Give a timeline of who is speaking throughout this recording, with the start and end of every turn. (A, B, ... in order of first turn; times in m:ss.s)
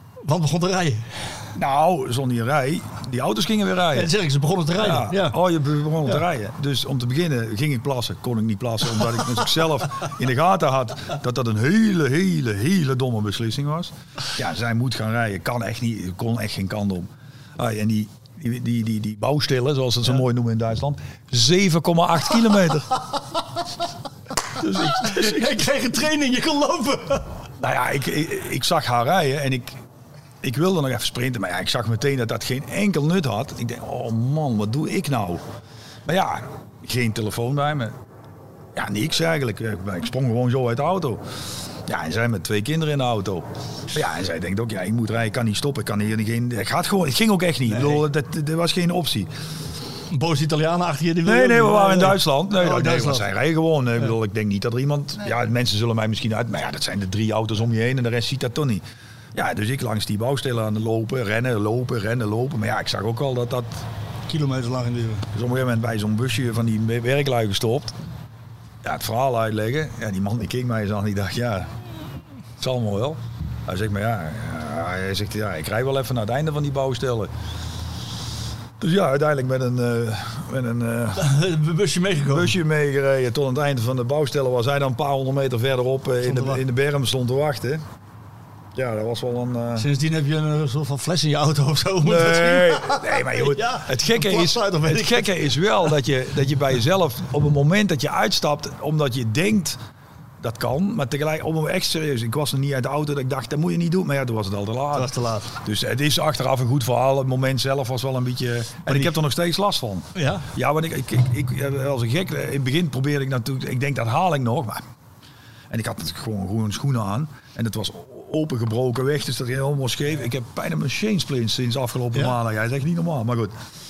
0:00.2-0:01.3 A
0:01.6-0:04.1 B
0:03.9-0:05.4 A
0:04.8-0:22.9 B
0:24.6-0:25.6 B
0:24.6-0:27.3 A
0:27.6-0:29.8 B
0:30.4-0:35.4 B
0:36.1-0:38.0 B
0:38.8-0:41.2 B
0:41.9-0:49.3 B
0:47.7-0:48.0 A
0:50.1-0:53.3 A
0:51.2-1:03.9 B
1:04.3-1:05.3 A
1:05.3-1:08.0 B
1:08.8-1:11.7 B
1:12.6-1:17.3 B
1:18.8-1:21.3 B
1:21.2-1:22.5 A
1:22.3-1:27.8 B
1:26.2-1:26.6 A
1:28.8-1:29.9 B
1:29.8-1:35.6 A
1:32.0-1:39.8 B
1:40.4-1:54.8 B
1:44.9-1:45.5 A
1:50.2-1:50.5 A
1:55.7-2:03.6 B